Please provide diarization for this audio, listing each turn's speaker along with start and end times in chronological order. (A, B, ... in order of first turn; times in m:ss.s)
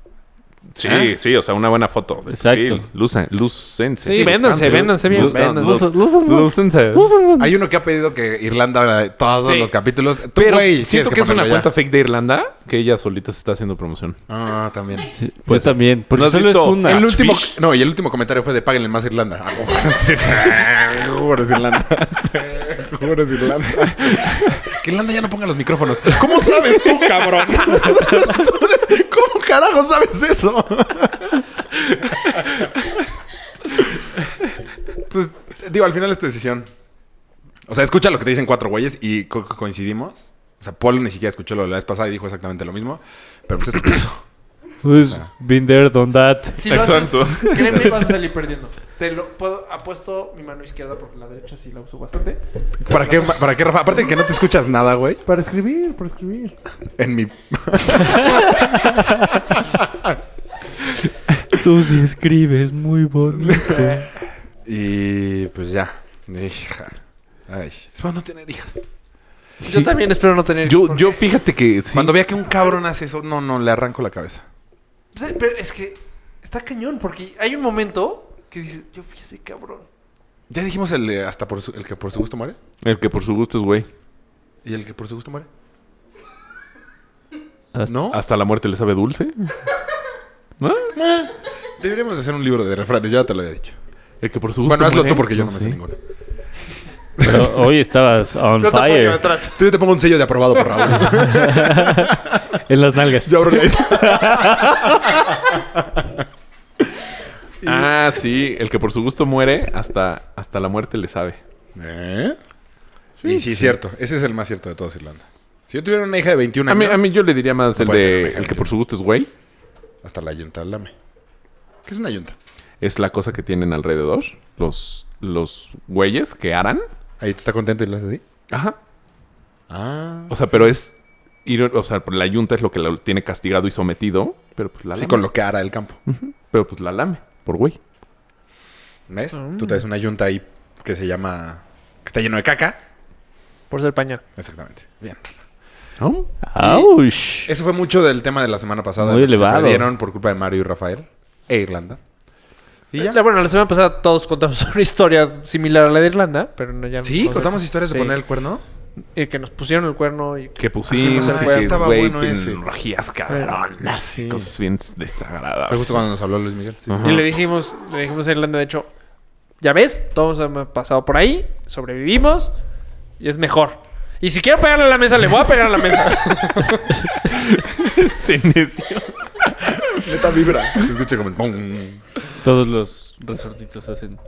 0:00.7-0:07.1 A
0:00.8-0:01.1 B
0:02.3-0:02.8 C
0:04.0-0:05.9 D
0:04.2-0:04.8 B
0:05.0-0:07.5 C
0:07.4-0:11.7 B
0:09.4-0:09.7 D
0:10.3-0:14.2 A
0:14.3-0:15.1 B
0:15.2-0:17.1 C
0:15.5-0:17.6 A
0:16.8-0:31.4 B
0:35.1-0:36.7 B
0:37.7-0:44.2 B
0:44.8-0:46.6 C
0:44.9-0:45.3 B
0:46.5-0:53.4 D
0:46.6-0:48.1 A
0:52.8-0:55.2 B
0:55.2-0:56.5 D
0:57.0-0:58.7 B
1:01.5-1:04.0 C
1:03.3-1:03.9 B
1:04.6-1:08.8 B
1:09.6-1:10.0 A
1:09.6-1:11.2 D
1:10.6-1:12.2 A
1:11.9-1:14.4 B
1:15.1-1:19.9 D
1:20.5-1:22.6 B
1:22.8-1:23.9 A
1:24.6-1:25.5 B
1:27.8-1:28.2 B
1:28.1-1:29.5 A
1:30.6-1:30.9 A
1:30.9-1:33.8 B
1:34.2-1:35.8 A
1:34.6-1:36.0 B
1:37.2-1:37.5 B
1:37.2-1:39.2 C
1:38.6-1:39.7 D
1:39.6-1:42.4 B
1:41.1-1:45.1 C
1:43.2-1:46.1 B
1:47.6-1:47.9 B
1:47.6-1:51.4 A
1:51.7-1:52.4 B
1:53.2-1:53.8 A
1:53.2-1:57.1 B
1:56.7-1:59.3 A
1:57.7-1:58.8 B
2:00.0-2:00.9 B
2:01.8-2:02.4 B
2:02.8-2:06.9 A
2:07.2-2:08.2 B
2:08.5-2:08.8 A
2:09.7-2:10.6 B
2:10.3-2:10.9 A
2:11.4-2:15.3 A
2:14.9-2:16.0 B
2:16.1-2:17.8 A
2:19.1-2:22.8 B
2:19.3-2:19.8 D
2:23.7-2:24.2 D
2:24.4-2:25.4 B
2:26.0-2:26.3 A
2:26.4-2:27.5 C
2:26.6-2:26.9 B
2:27.4-2:32.0 B
2:29.0-2:29.9 C
2:32.9-2:33.2 B
2:33.0-2:38.2 D
2:37.0-2:38.6 B
2:39.1-2:41.8 D
2:40.6-2:46.1 A
2:40.9-2:42.6 B
2:43.3-2:43.6 D
2:43.8-2:44.5 B
2:45.7-2:47.2 B
2:46.9-2:47.3 A
2:47.0-2:48.9 D
2:49.6-2:52.5 D
2:53.2-2:57.1 D
2:57.3-3:00.0 A
2:59.9-3:02.0 B
3:02.4-3:04.2 C